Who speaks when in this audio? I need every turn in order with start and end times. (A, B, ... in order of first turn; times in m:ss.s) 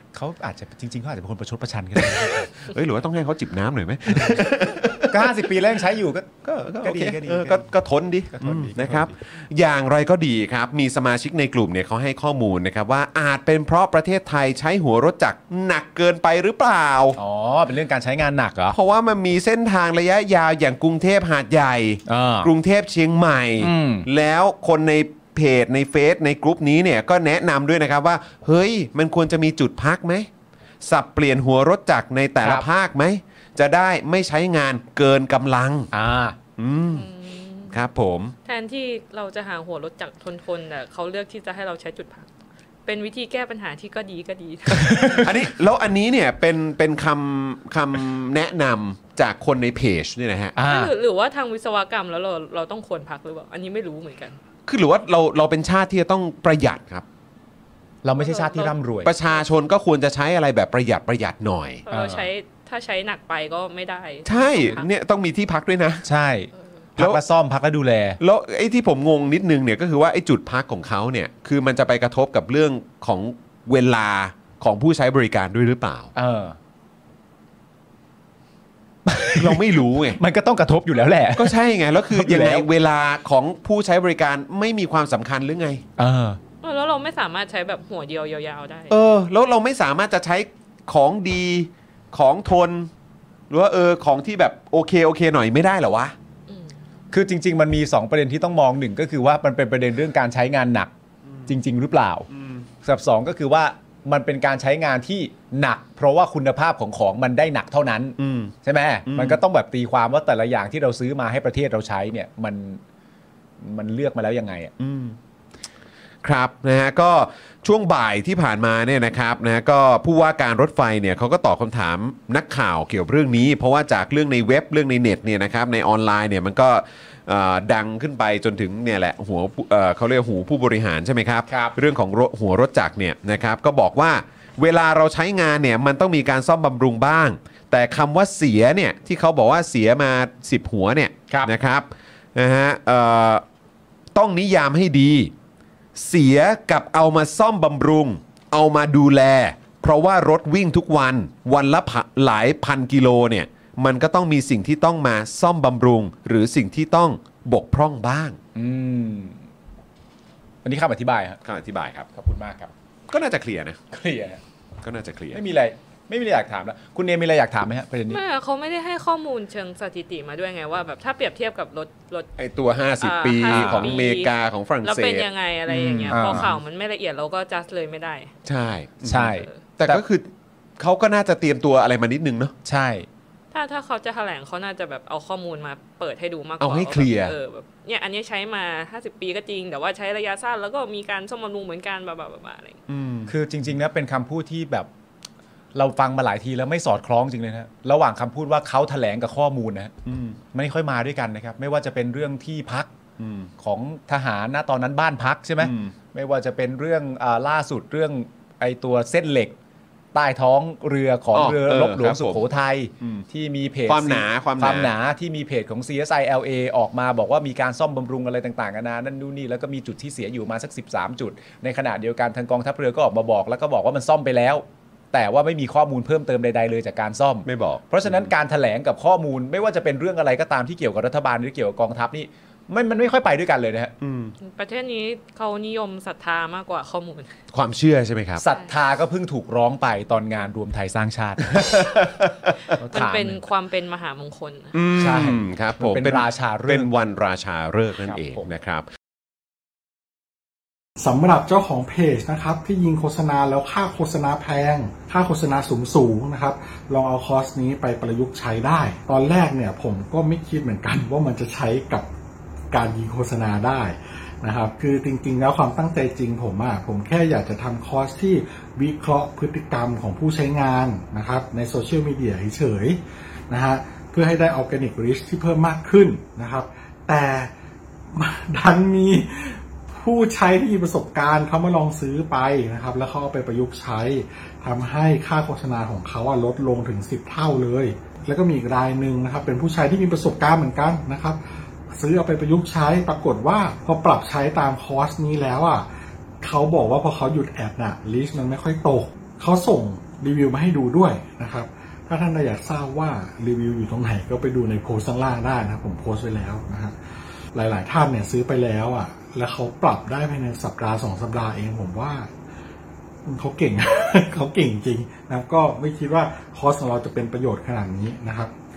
0:00.1-0:02.5 A
0:02.0-0:05.3 B
0:05.0-0:07.6 A
0:06.4-0:17.2 B
0:08.3-0:09.1 A
0:17.2-0:18.8 A
0:18.7-0:30.3 B
0:22.1-0:22.5 A
0:23.6-0:24.1 A
0:30.8-0:35.9 B
0:32.4-0:32.7 A
0:35.9-0:36.4 A
0:36.6-0:37.1 B
0:36.9-0:37.8 C
0:37.7-0:38.3 B
0:38.4-0:42.3 C
0:42.9-0:45.3 C
0:44.7-0:45.3 A
0:44.9-0:50.6 B
0:50.6-0:50.9 A
0:50.6-0:54.4 C
0:54.7-0:57.0 B
0:58.0-0:59.1 A
0:58.2-0:59.4 C
0:59.0-1:01.8 B
1:01.9-1:04.9 C
1:01.9-1:02.3 A
1:04.2-1:06.0 B
1:06.0-1:08.2 A
1:08.2-1:16.1 B
1:16.2-1:16.6 A
1:19.1-1:22.7 A
1:19.4-1:20.2 B
1:21.4-1:25.8 B
1:26.0-1:26.4 A
1:26.6-1:28.9 C
1:28.9-1:32.9 B
1:33.5-1:36.1 B
1:36.5-1:36.8 C
1:37.1-1:40.9 A
1:41.5-1:42.3 A
1:42.3-1:42.7 B
1:42.8-1:52.8 A
1:48.2-1:48.6 B
1:49.1-1:49.4 B
1:53.6-1:54.7 A
1:54.8-1:55.2 B
1:56.2-2:23.4 B
2:11.5-2:11.8 A
2:24.1-2:25.3 B
2:26.0-2:38.4 B
2:38.6-2:39.5 A
2:40.6-2:41.4 A
2:41.4-2:42.1 B
2:42.1-2:42.7 A
2:43.1-2:43.8 B
2:43.9-2:44.4 A
2:44.8-2:45.4 B
2:45.3-2:48.2 A
2:48.1-2:52.3 C
2:52.4-2:56.6 B
2:53.0-2:58.3 C
2:53.5-2:53.9 A
2:56.1-2:56.5 A
2:58.5-3:00.3 B
2:59.0-3:00.0 A
2:59.1-2:59.6 C
3:00.8-3:02.5 B
3:02.6-3:03.1 A
3:03.5-3:12.8 C
3:06.6-3:07.4 B
3:12.9-3:13.3 B
3:13.3-3:14.9 A
3:15.7-3:19.9 A
3:20.1-3:20.4 B
3:20.5-3:22.9 A
3:23.2-3:23.5 B
3:23.6-3:29.6 A
3:25.6-3:25.9 B
3:30.1-3:53.9 A
3:31.3-3:32.5 B
3:33.0-3:33.3 B
3:33.9-3:34.9 B
3:47.4-3:48.3 B
3:54.0-3:54.3 B
3:54.4-3:57.3 C
3:57.5-3:58.4 B
3:58.4-4:01.6 A
3:58.4-3:58.7 C
4:01.4-4:02.6 B
4:02.8-4:03.4 A
4:02.9-4:04.7 C
4:04.7-4:08.9 B
4:05.0-4:06.9 A
4:08.0-4:08.4 A
4:11.0-4:22.1 D
4:22.7-4:37.5 D
4:38.1-4:51.4 D
4:51.9-4:55.9 D
4:56.4-5:06.9 D
5:07.5-5:12.3 D
5:13.3-5:18.5 D